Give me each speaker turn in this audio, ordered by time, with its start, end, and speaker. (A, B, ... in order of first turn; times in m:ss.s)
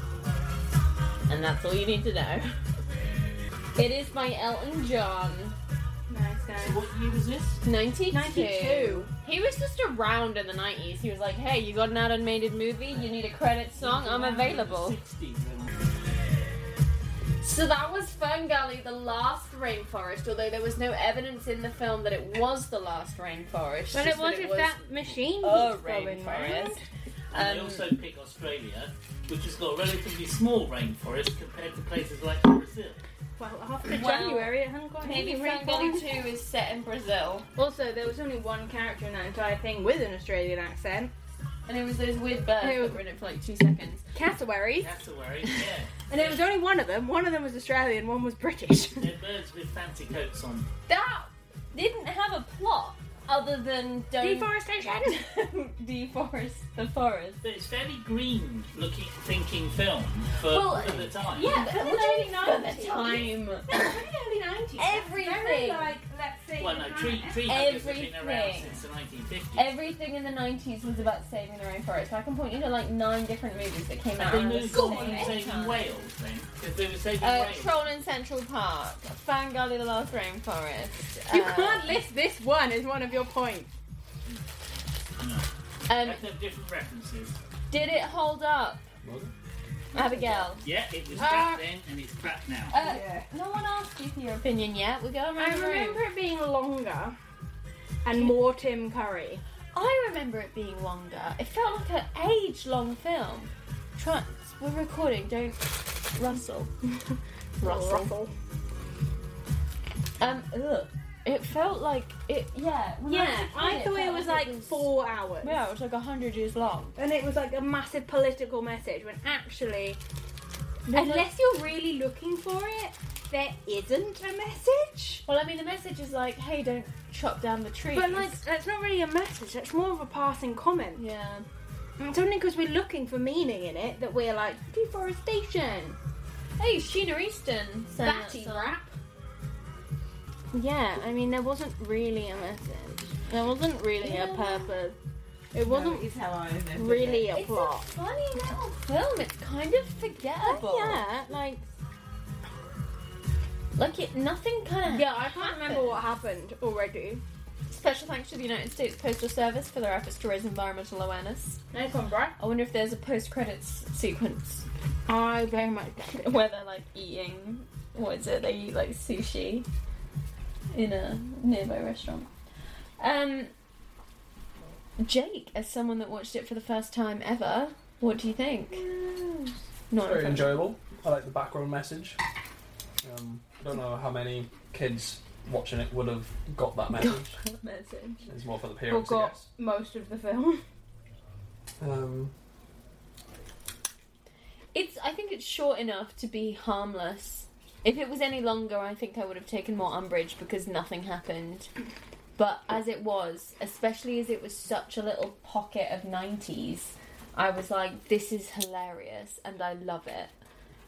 0:01.3-0:02.6 A
0:03.8-0:05.6 A
0:06.1-0:06.8 B
0:06.6-0:07.6 C
0:07.6-0:15.0 A
0:08.1-0:09.1 B
0:13.8-0:15.7 C
0:17.4-0:26.8 A
0:23.9-0:26.8 B
0:27.3-0:27.9 A
0:27.3-0:33.0 C
0:33.4-0:36.0 B
0:33.9-0:37.5 A
0:37.6-0:41.1 B
0:41.7-0:44.0 A
0:42.6-0:43.0 B
0:44.1-0:44.9 B
0:44.8-0:46.4 C
0:46.1-0:49.1 B
0:49.0-0:50.7 C
0:50.9-0:57.4 A
0:54.2-0:55.2 B
0:57.4-1:01.5 C
1:00.4-1:03.9 A
1:01.3-1:07.5 B
1:04.8-1:06.0 A
1:06.6-1:09.7 C
1:07.5-1:08.8 A
1:09.5-1:15.9 A
1:14.2-1:17.8 C
1:14.6-1:15.4 B
1:17.2-1:22.0 A
1:21.3-1:23.7 B
1:25.2-1:27.4 C
1:25.9-1:26.2 A
1:27.7-1:28.9 A
1:29.0-1:29.3 D
1:29.9-1:30.5 B
1:29.9-1:30.7 A
1:30.6-1:32.7 C
1:31.2-1:31.6 B
1:31.2-1:31.5 A
1:32.7-1:33.1 B
1:32.7-1:36.0 A
1:32.8-1:33.2 E
1:35.4-1:37.2 B
1:38.0-1:39.4 B
1:39.7-1:46.7 A
1:47.6-1:48.1 A
1:47.6-1:48.3 B
1:50.2-1:54.9 A
1:53.1-1:55.6 B
1:55.4-1:57.0 A
1:57.0-2:00.0 B
2:00.9-2:05.2 B
2:00.9-2:01.3 A
2:05.3-2:08.4 A
2:07.9-2:11.0 B
2:11.0-2:11.4 A
2:12.0-2:16.0 B
2:16.6-2:18.6 A
2:18.0-2:18.9 B
2:20.5-2:25.0 B
2:24.0-2:24.7 A
2:25.5-2:26.1 B
2:25.6-2:27.3 E
2:26.7-2:27.9 B
2:27.3-2:31.1 A
2:30.4-2:31.6 B
2:33.8-2:36.0 A
2:34.9-2:37.2 B
2:37.7-2:41.6 A
2:41.7-2:42.4 B
2:42.4-2:44.6 A
2:45.1-2:46.3 B
2:46.2-2:49.7 A
2:50.7-2:52.3 A
2:53.0-2:53.5 A
2:55.0-2:58.9 A
2:58.7-2:59.5 B
2:59.9-3:00.7 A
3:00.0-3:02.2 D
3:03.0-3:07.3 D
3:06.9-3:08.2 A
3:08.2-3:09.5 D
3:08.9-3:10.6 B
3:11.8-3:12.3 D
3:14.7-3:21.7 A
3:22.4-3:30.3 A